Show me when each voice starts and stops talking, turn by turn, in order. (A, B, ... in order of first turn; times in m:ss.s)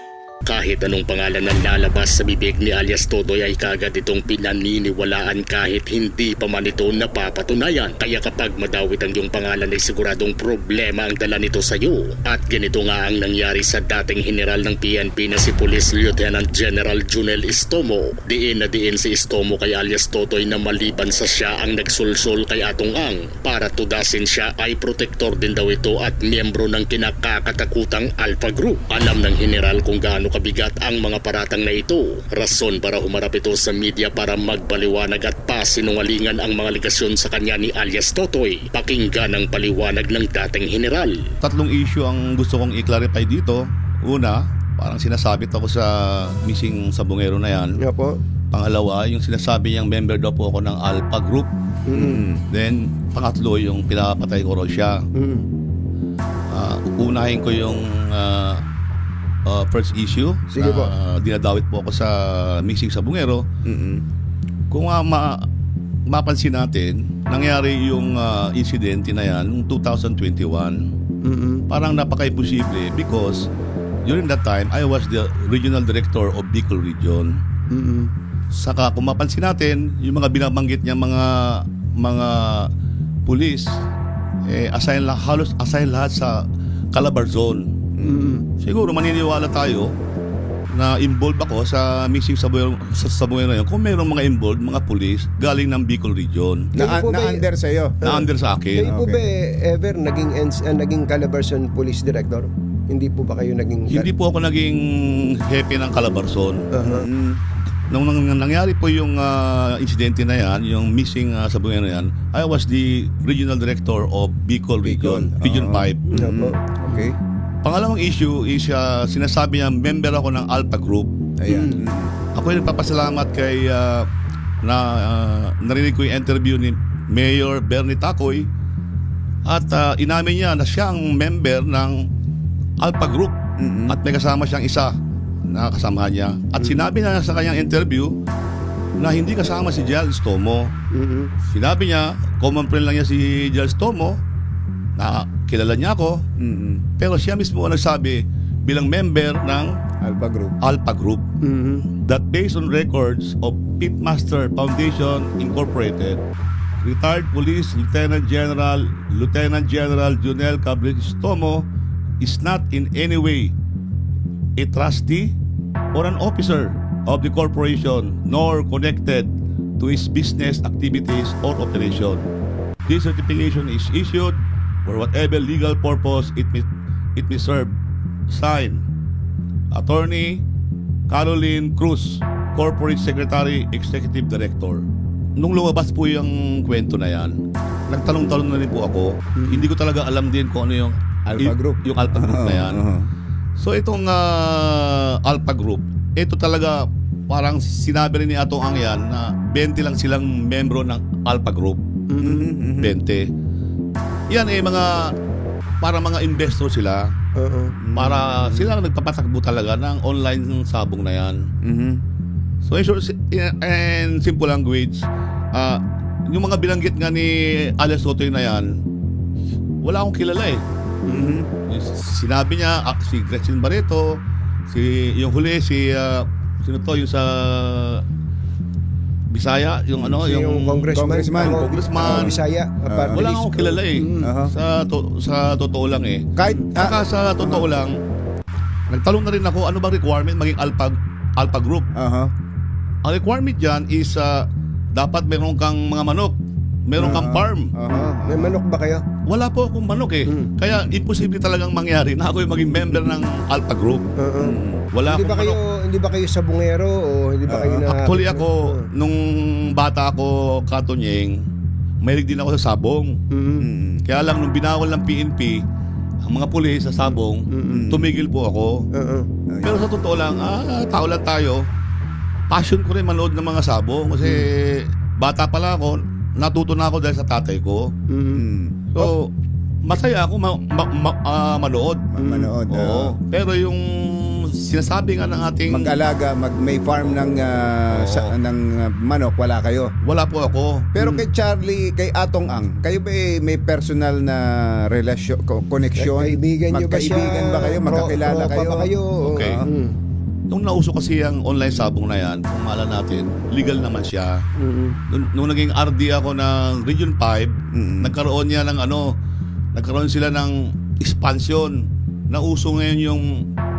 0:00.5-0:41.2 A
0:41.4-0:47.8 B
0:47.8-0:48.2 C
0:48.5-0:51.5 B
0:51.9-0:52.2 C
0:51.9-0:52.4 D
0:52.5-0:55.0 B
0:55.2-0:55.5 C
0:56.5-0:58.6 B
0:59.5-1:03.4 B
1:00.5-1:00.9 C
1:03.7-1:04.0 D
1:04.7-1:05.4 B
1:06.1-1:10.8 B
1:11.2-1:11.7 C
1:11.7-1:13.5 B
1:14.0-1:17.4 B
1:17.7-1:18.1 C
1:18.5-1:22.7 B
1:23.3-1:23.7 B
1:24.4-1:26.4 B
1:26.9-1:27.7 B
1:28.0-1:28.2 D
1:28.0-1:28.5 C
1:28.6-1:29.9 B
1:30.7-1:36.7 B
1:36.8-1:38.0 D
1:36.8-1:37.4 C
1:38.0-1:44.1 C
1:38.0-1:38.9 B
1:38.8-1:39.2 D
1:43.9-1:46.7 B
1:46.7-1:47.1 C
1:46.8-1:47.4 D
1:47.9-1:56.1 B
1:54.8-1:57.2 D
1:56.1-1:57.0 C
1:57.6-2:01.1 B
2:01.4-2:02.1 D
2:01.5-2:01.8 C
2:02.4-2:04.1 B
2:04.6-2:08.5 B
2:09.4-2:12.1 B
2:12.8-2:13.4 B
2:13.6-2:14.0 D
2:13.9-2:14.9 B
2:15.4-2:18.2 B
2:16.6-2:16.8 C
2:19.0-2:20.7 B
2:20.9-2:21.3 C
2:21.5-2:24.2 B
2:25.0-2:26.2 B
2:26.4-2:26.8 D
2:27.0-2:29.8 B
2:30.0-2:30.6 D
2:30.6-2:31.2 B
2:31.4-2:31.9 C
2:32.0-2:36.2 B
2:36.8-2:41.7 B
2:42.2-2:43.5 B
2:44.6-2:45.4 B
2:45.9-2:52.3 B
2:52.9-2:57.7 B
2:58.3-2:58.8 B
2:59.7-3:00.4 B
3:01.1-3:04.9 B
3:05.4-3:07.4 B
3:07.9-3:12.8 B
3:09.4-3:09.7 C
3:11.3-3:13.1 D
3:13.6-3:21.8 B
3:22.1-3:22.5 C
3:22.2-3:23.0 D
3:22.8-3:23.3 B
3:24.3-3:25.1 B
3:25.8-3:27.1 B
3:27.4-3:27.8 C
3:27.8-3:28.7 D
3:28.0-3:31.4 B
3:31.6-3:32.0 D
3:32.6-3:38.7 B
3:39.8-3:40.6 B
3:41.1-3:41.4 C
3:41.1-3:41.5 D
3:41.7-3:48.0 B
3:49.3-3:50.9 B
3:50.1-3:54.3 C
3:50.9-3:53.3 D
3:51.4-3:52.4 B
3:53.1-3:58.0 B
3:54.2-3:54.5 D
3:56.4-3:57.7 D
3:58.9-4:01.9 B
4:02.0-4:02.3 D
4:03.0-4:07.7 B
4:07.0-4:07.3 C
4:07.0-4:08.6 D
4:07.9-4:09.0 C
4:09.3-4:14.0 B
4:10.3-4:10.5 C
4:14.2-4:18.9 C
4:14.4-4:14.8 D
4:14.9-4:15.6 B
4:17.5-4:17.8 D
4:17.9-4:21.4 B
4:22.0-4:23.2 B
4:23.3-4:23.7 C
4:23.6-4:24.0 D
4:24.1-4:25.6 B
4:26.2-4:28.8 B
4:27.5-4:27.9 C
4:27.7-4:28.1 D
4:28.9-4:29.3 C
4:29.5-4:29.9 D
4:29.6-4:31.7 B
4:32.5-4:37.9 B
4:38.1-4:38.4 C
4:38.4-4:38.8 D
4:38.9-4:39.2 B
4:39.8-4:42.1 B
4:42.1-4:43.1 D
4:42.2-4:42.6 C
4:42.7-4:46.0 B
4:45.7-4:49.9 D
4:47.9-4:48.3 B
4:50.0-4:50.9 B
4:51.0-4:59.7 D
4:51.0-4:51.3 C
4:56.0-5:00.0 C
4:59.2-4:59.6 B
5:00.5-5:04.4 B
5:04.6-5:05.0 C
5:05.1-5:09.0 B
5:07.7-5:08.2 D
5:09.7-5:13.2 B